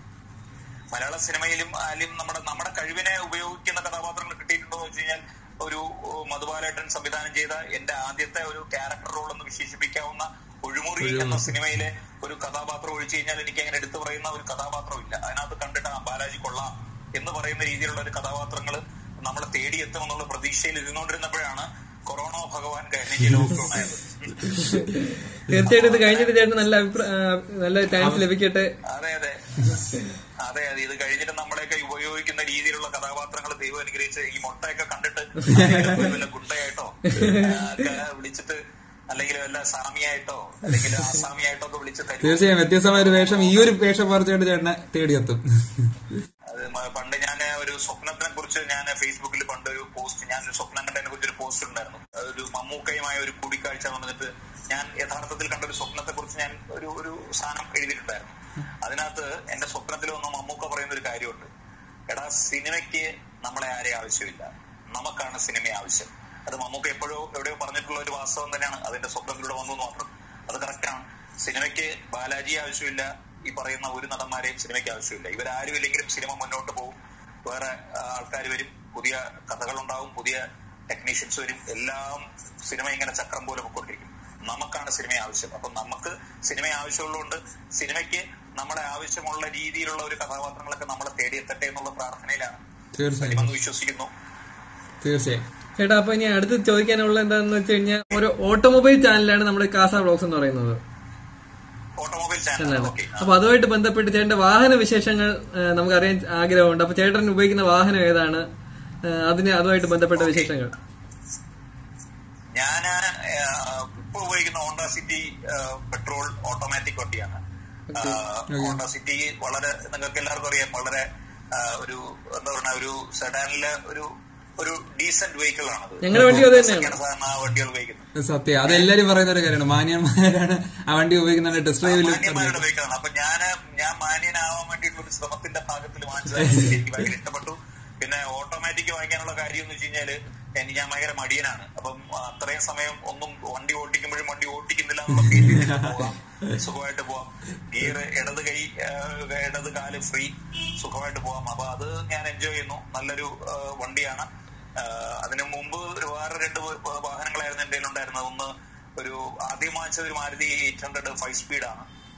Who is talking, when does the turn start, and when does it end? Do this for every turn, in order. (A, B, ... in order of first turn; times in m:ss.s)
0:00.9-0:24.8 A
0:11.0-0:11.6 B
0:24.6-0:28.7 C
0:25.5-0:26.3 A
0:27.9-0:28.3 B
0:28.9-0:29.8 A
0:30.4-0:38.6 A
0:35.5-0:36.0 B
0:37.2-0:37.6 C
0:39.1-0:43.7 A
0:42.2-0:46.2 B
0:46.5-1:01.5 A
1:02.1-1:32.6 A
1:33.0-1:33.5 B
1:33.2-1:34.1 A
1:35.0-1:35.4 B
1:35.8-1:40.8 C
1:42.0-1:43.3 A
1:42.6-1:48.5 C
1:49.0-1:50.7 C
1:50.2-1:50.5 A
1:52.6-1:57.4 A
1:57.9-1:58.2 C
1:58.0-2:08.1 A
1:58.5-1:58.8 B
2:06.0-2:07.0 C
2:06.1-2:06.4 B
2:08.2-2:12.6 B
2:11.8-2:41.9 A
2:16.3-2:17.0 B
2:25.2-2:26.5 B